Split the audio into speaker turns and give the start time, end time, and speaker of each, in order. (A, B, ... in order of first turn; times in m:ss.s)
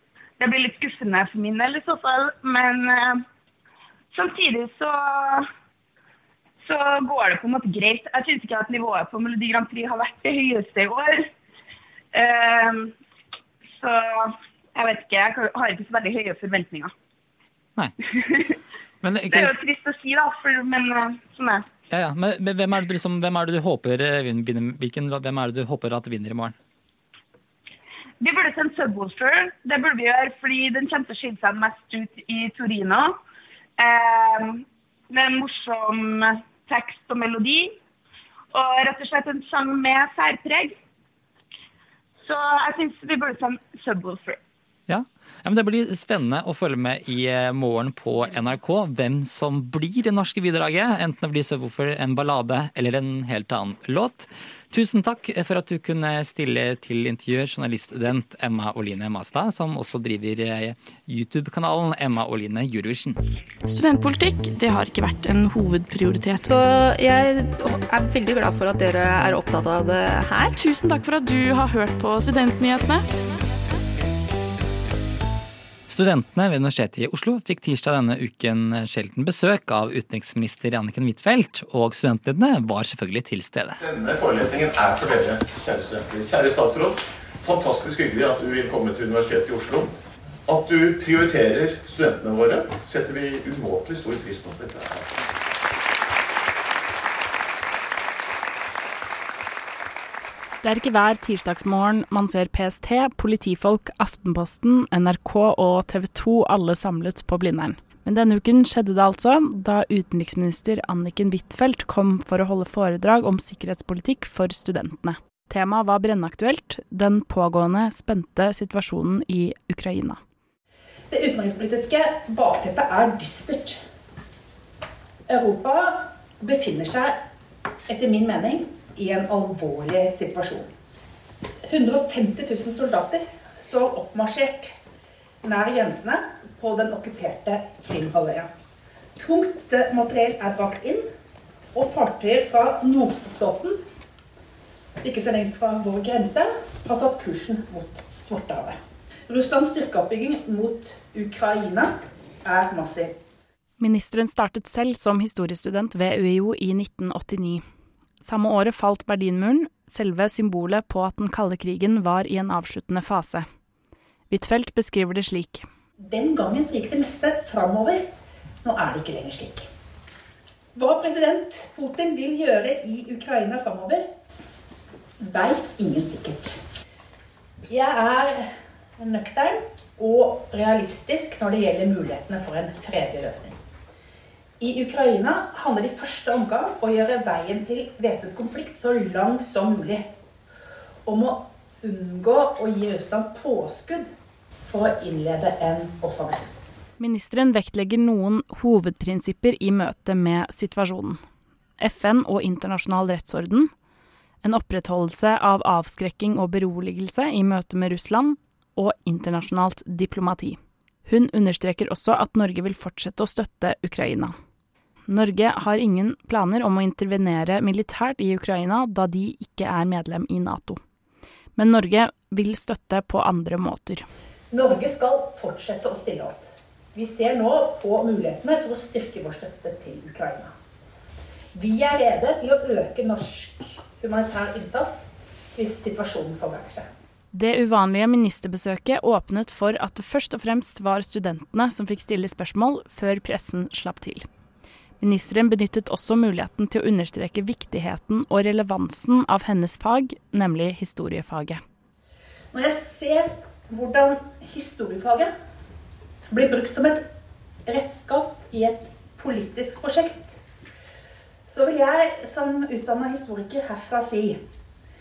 0:00.4-0:03.2 A
0:04.1-0:05.5 A
0:06.6-0:11.3 A
0:12.1-0:12.9 A
0:13.8-0:16.9 A
0:19.0-0:19.6 B
0:19.3-0:21.6 A
0:21.9-0:26.5 B
0:28.2-0:33.2 A
0:33.8-0:37.8 A
0:38.5-0:40.7 A
0:42.2-0:44.4 A
0:44.9-1:03.2 B
1:03.6-1:06.6 C
1:06.4-1:07.9 D
1:08.0-1:08.6 C
1:08.6-1:10.3 D
1:10.4-1:13.0 C
1:15.9-1:23.8 B
1:23.8-1:29.9 E
1:30.5-1:35.1 E
1:40.6-2:00.2 F
2:01.1-2:03.8 G
2:05.3-2:07.2 G
2:07.9-2:10.7 G
2:11.6-2:14.8 G
2:15.4-2:18.5 G
2:19.2-2:21.0 G
2:21.7-2:23.8 G
2:25.0-2:33.2 G
2:33.8-2:37.6 F
2:38.2-2:43.4 F
2:44.3-2:45.6 F
2:46.0-2:48.0 G
2:48.6-2:49.7 G
2:50.8-2:54.0 G
2:55.2-2:56.6 G
2:57.7-3:03.6 G
3:04.6-3:10.1 G
3:11.0-3:14.1 G
3:14.6-3:16.5 G
3:17.0-3:21.2 F
3:21.8-3:23.7 F
3:24.4-3:34.3 F
3:35.1-3:40.8 F
3:41.6-3:44.0 F
3:44.5-3:50.5 G
3:51.5-3:56.9 G
3:57.3-4:04.2 F
4:05.0-4:11.6 F
4:12.5-4:15.3 G
4:16.3-4:17.0 G
4:17.6-4:20.4 G
4:21.5-4:24.4 G